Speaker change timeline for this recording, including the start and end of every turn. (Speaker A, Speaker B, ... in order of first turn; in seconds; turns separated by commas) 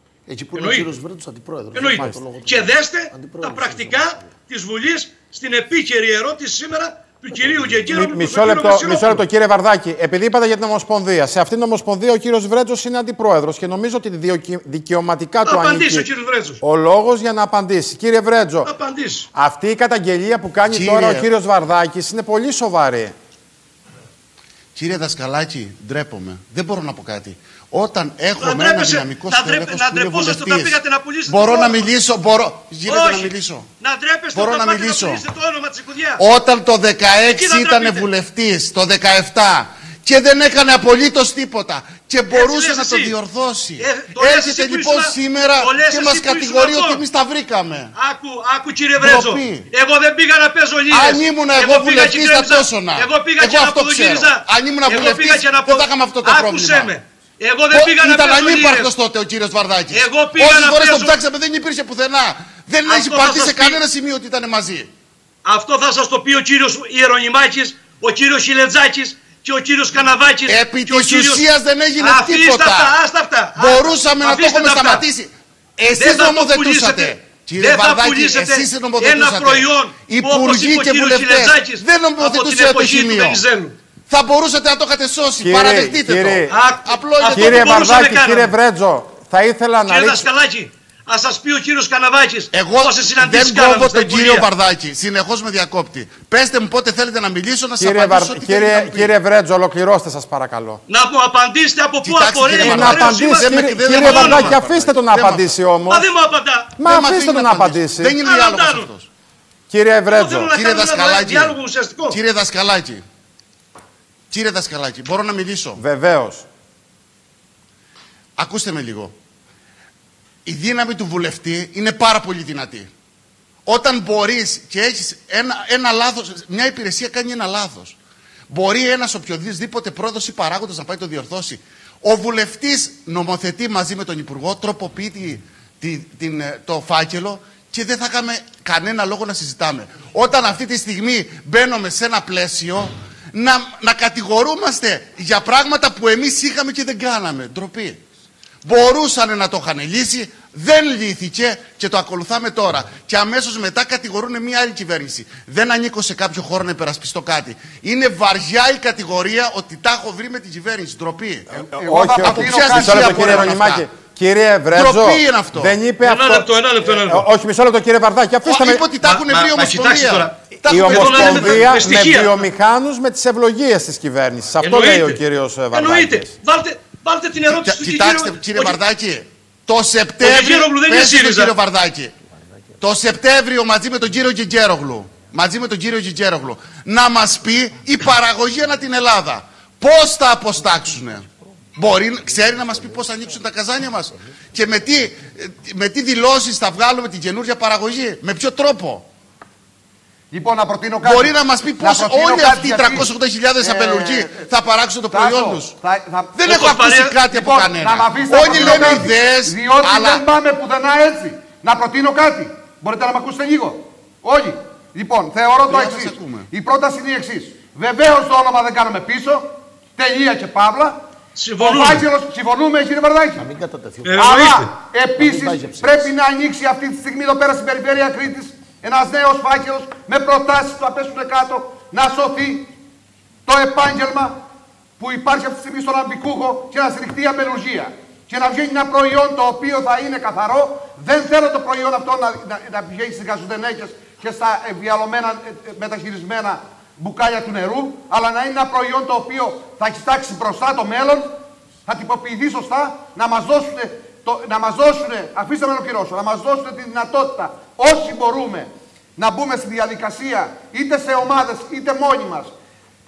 Speaker A: 0.3-4.2, Speaker B: 0.5-0.9, Speaker B: 1.7-9.2, Speaker C: 1.8-2.2, Speaker A: 7.3-7.9, Speaker C: 7.9-16.1, Speaker B: 15.4-16.6, Speaker C: 16.6-18.7, Speaker B: 18.6-19.3, Speaker C: 19.3-23.1, Speaker D: 20.7-21.3, Speaker D: 24.8-33.7, Speaker B: 28.4-31.9, Speaker B: 32.9-36.2, Speaker D: 34.3-35.2, Speaker D: 36.2-47.9, Speaker B: 37.3-38.1, Speaker B: 42.3-43.2, Speaker B: 43.8-47.0, Speaker B: 48.0-58.9, Speaker D: 49.0-49.7, Speaker D: 50.9-56.9, Speaker D: 57.7-64.9, Speaker B: 59.9-61.2, Speaker B: 62.9-63.8, Speaker B: 65.5-71.5, Speaker D: 70.5-73.0, Speaker B: 72.0-75.1, Speaker D: 73.6-83.4, Speaker B: 75.9-83.8, Speaker D: 84.1-87.9, Speaker C: 85.4-86.5, Speaker B: 86.5-88.5, Speaker C: 87.3-90.3, Speaker B: 89.9-94.5, Speaker D: 92.5-99.1, Speaker C: 97.8-100.8, Speaker B: 100.9-104.6, Speaker D: 102.0-105.6, Speaker C: 102.6-106.1, Speaker B: 105.9-106.7, Speaker C: 106.8-108.2, Speaker D: 106.8-109.1, Speaker B: 108.2-108.9, Speaker C: 109.7-110.5, Speaker B: 110.1-112.2, Speaker D: 110.5-111.6, Speaker D: 112.1-113.0, Speaker D: 114.3-115.8, Speaker C: 115.8-116.5, Speaker D: 118.4-119.1, Speaker D: 120.5-122.9, Speaker D: 123.7-128.0, Speaker D: 128.5-148.0, Speaker D: 148.6-161.5, Speaker E: 161.5-163.6, Speaker C: 161.5-168.8, Speaker D: 162.2-163.9, Speaker D: 164.7-165.8, Speaker B: 166.0-167.3, Speaker D: 168.5-171.8, Speaker B: 169.0-172.3, Speaker C: 170.6-176.3, Speaker B: 174.6-178.8, Speaker D: 177.5-182.1, Speaker B: 180.2-181.6, Speaker D: 182.8-199.1, Speaker A: 192.4-193.0, Speaker E: 200.3-204.5, Speaker D: 201.0-205.8, Speaker E: 205.1-206.6, Speaker D: 206.4-210.2, Speaker B: 206.4-207.2, Speaker E: 207.2-221.0, Speaker D: 215.7-216.5, Speaker B: 221.4-222.1, Speaker E: 221.6-223.5, Speaker A: 223.4-224.2, Speaker B: 224.0-224.7, Speaker E: 224.2-232.7, Speaker A: 225.2-226.1, Speaker E: 233.5-234.4, Speaker E: 235.0-251.3, Speaker E: 251.9-262.5